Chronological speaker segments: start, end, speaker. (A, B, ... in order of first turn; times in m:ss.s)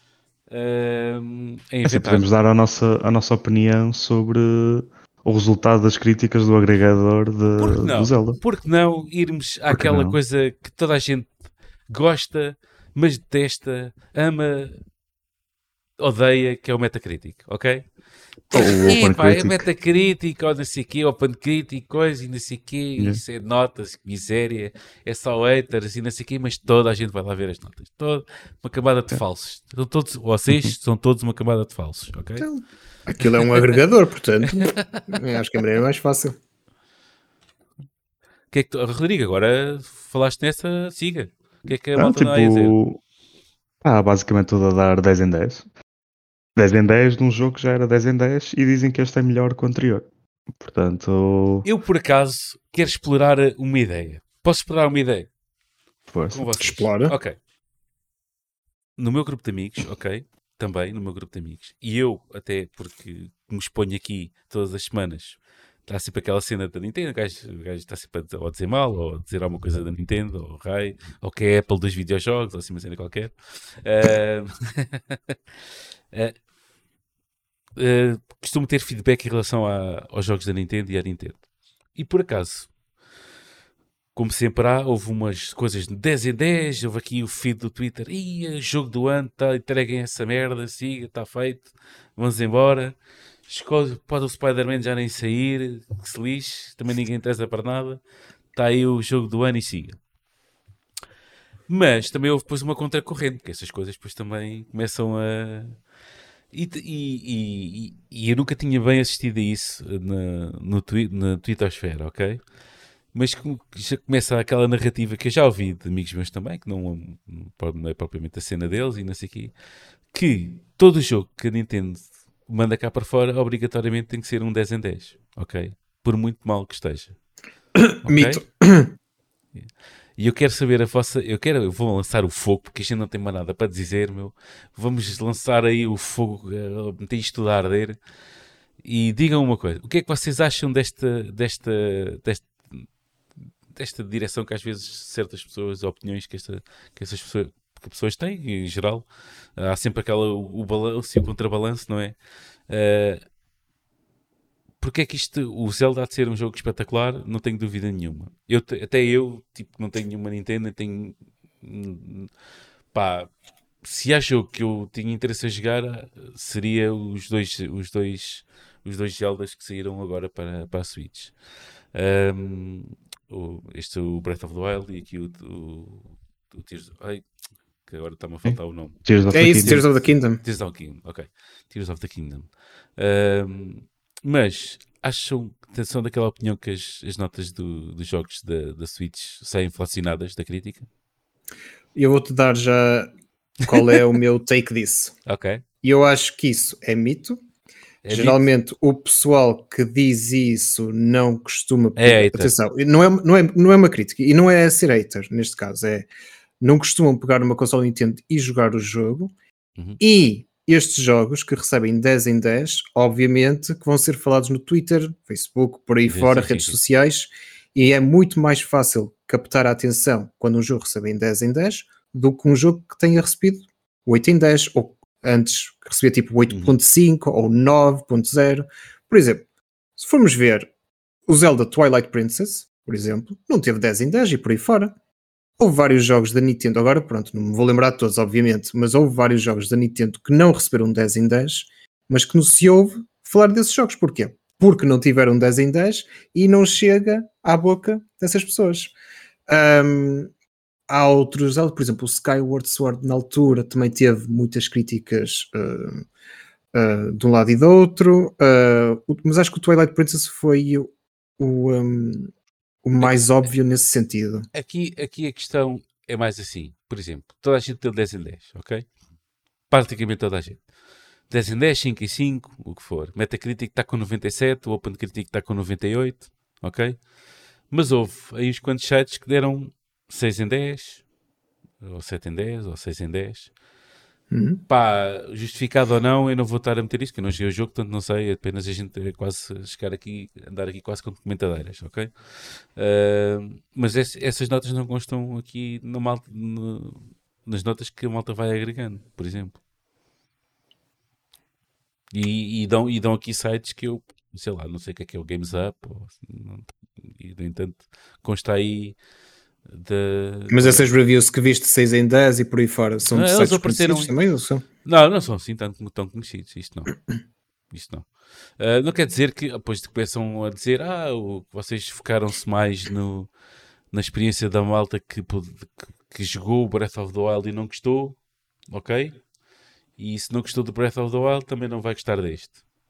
0:00.5-0:02.3 A
0:01.9-0:08.4 B
0:07.6-0:11.3 A
0:09.7-0:10.2 B
0:11.9-0:14.8 A
0:16.0-0:17.9 A
0:18.5-0:32.5 A
0:18.5-0:19.7 B
0:32.4-0:36.4 C
0:34.6-0:35.0 A
0:38.5-0:42.8 A
0:42.0-0:43.0 B
0:43.8-0:45.7 B
0:46.6-0:50.1 B
0:50.6-0:51.7 B
0:51.6-0:55.3 A
0:56.1-0:56.5 B
0:56.3-0:57.4 A
0:56.6-0:57.2 C
0:59.0-1:15.3 A
1:17.8-1:22.7 A
1:24.2-1:33.0 A
1:33.5-1:38.0 A
1:38.5-1:40.0 A
1:41.7-1:45.8 A
1:46.5-1:52.4 A
1:53.1-1:59.5 A
2:00.1-2:07.2 A
2:07.8-2:08.9 C
2:08.0-2:08.4 A
2:09.6-2:18.0 A
2:18.8-2:22.9 A
2:23.7-2:32.2 A
2:32.7-2:33.2 A
2:34.8-2:42.3 A
2:42.9-2:43.3 A
2:43.8-2:51.4 A
2:51.9-2:57.3 A
2:57.8-3:10.9 A
2:59.0-2:59.8 B
2:59.3-3:00.4 C
3:12.0-3:13.1 C
3:13.6-3:15.2 C
3:15.3-3:15.6 A
3:15.8-3:17.4 C
3:18.0-3:18.4 A
3:18.1-3:26.1 C
3:22.0-3:22.5 A
3:26.6-3:29.3 C
3:30.0-3:49.4 C
3:36.1-3:36.8 A
3:50.0-3:50.7 C
3:51.3-3:55.0 C
3:55.6-4:08.9 C
4:09.5-4:10.3 C
4:10.9-4:16.0 C
4:16.7-4:22.3 C
4:22.8-4:24.5 C
4:24.5-4:28.9 A
4:29.7-4:30.7 A
4:31.3-4:37.0 A
4:37.7-4:41.0 A
4:41.8-4:43.5 A
4:44.3-4:44.6 C
4:44.7-4:59.6 A
5:02.1-5:09.0 A
5:09.7-5:10.9 A
5:10.5-5:14.6 C
5:13.1-5:14.1 A
5:14.8-5:17.0 A
5:17.7-5:23.3 A
5:23.9-5:28.2 A
5:28.7-5:29.2 A
5:30.0-5:32.6 A